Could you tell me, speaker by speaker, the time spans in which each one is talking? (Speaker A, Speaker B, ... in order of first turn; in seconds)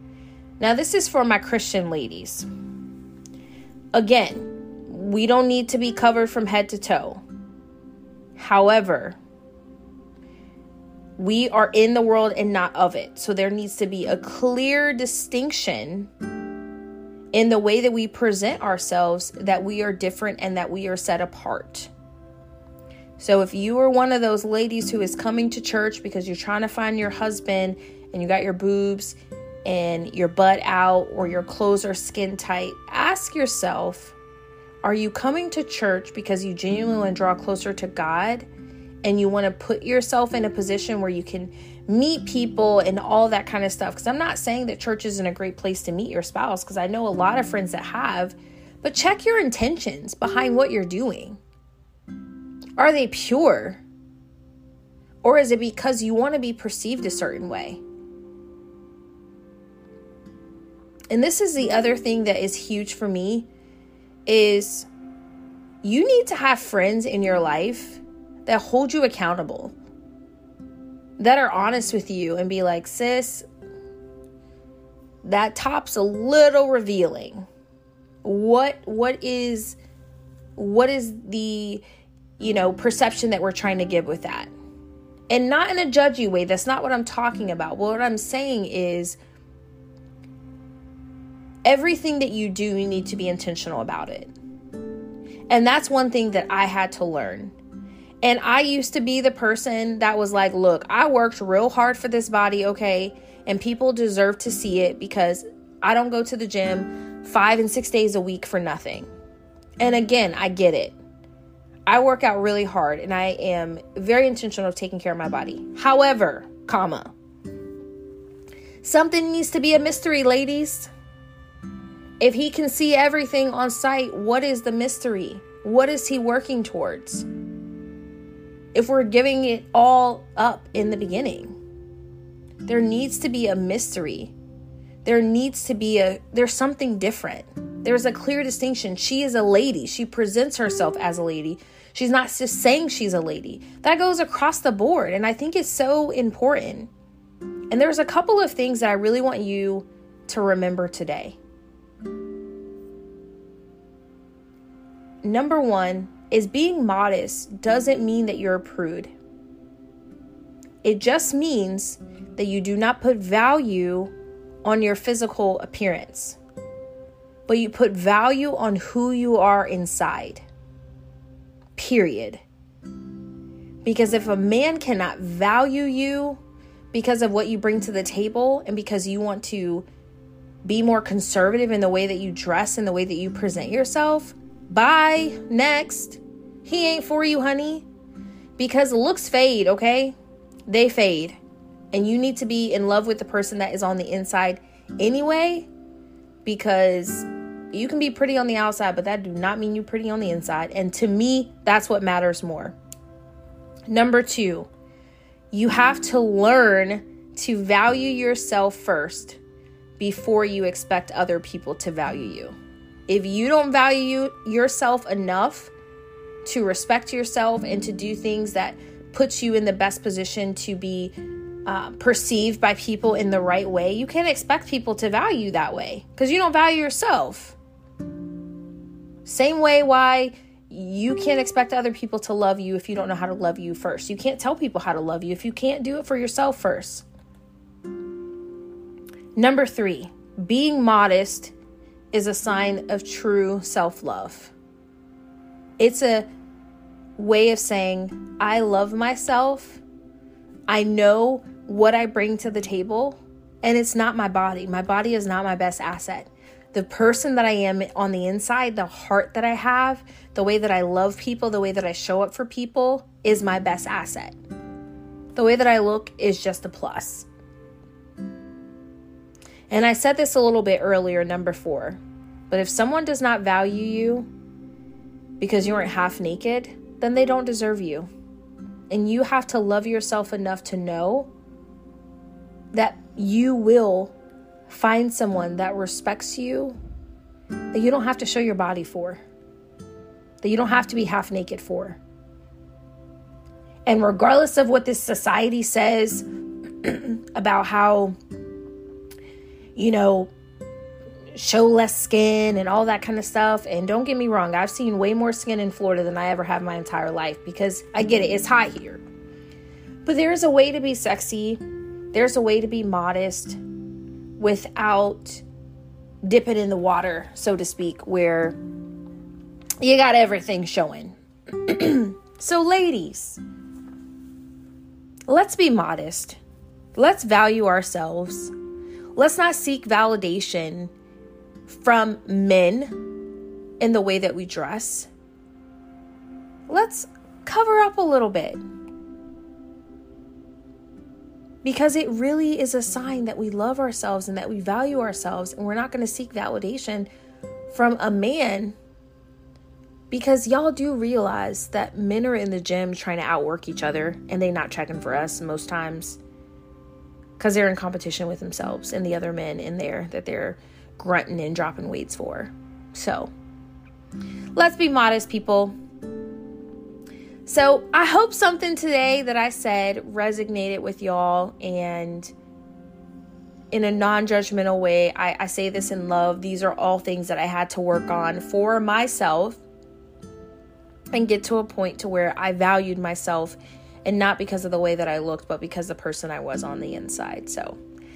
Speaker A: 0.6-2.5, 3.9-7.2, 8.4-9.2, 11.2-16.1, 17.3-21.9, 23.2-34.1, 34.8-38.5, 39.0-51.4, 52.8-53.8, 55.2-57.8, 61.1-63.5, 64.2-64.9, 65.8-69.7, 71.2-73.5, 75.2-77.4, 78.2-79.8, 80.5-81.8, 82.4-84.5, 85.3-89.2, 91.6-94.3, 95.5-97.5, 98.2-109.1, 109.8-111.0, 111.9-117.1, 118.8-120.9, 122.2-127.2, 128.7-131.6, 132.6-134.3, 135.0-146.9, 147.7-151.4, 155.2-159.1, 160.8-164.1, 164.6-166.4, 167.5-170.4, 171.8-172.4, 173.8-176.4, 176.9-179.8, 180.6-187.8, 188.6-190.2, 190.7-191.4, 191.9-195.7, 196.4-202.8, 203.9-204.7, 205.5-209.4, 210.0-212.6, 213.1-215.7, 216.4-227.6, 229.2-237.0, 239.3-241.5, 242.1-244.5, 245.8-246.3, 247.2-249.8, 250.7-264.3, 265.3-267.3, 269.7-274.3, 275.4-278.1, 278.9-281.3, 282.7-284.1, 284.7-286.8, 287.7-289.2, 290.4-292.0, 293.9-296.2, 296.8-298.1, 299.8-300.3, 301.3-309.0, 310.0-311.6, 312.1-313.6, 314.4-315.4, 316.2-318.6, 319.8-323.4, 325.3-326.4, 326.9-328.5, 329.1-330.9, 331.7-333.0, 333.8-335.1, 336.7-338.6, 341.6-347.1, 347.7-348.8, 350.1-356.2, 357.4-363.3, 364.6-365.7, 367.4-372.3, 373.7-379.6, 381.1-387.8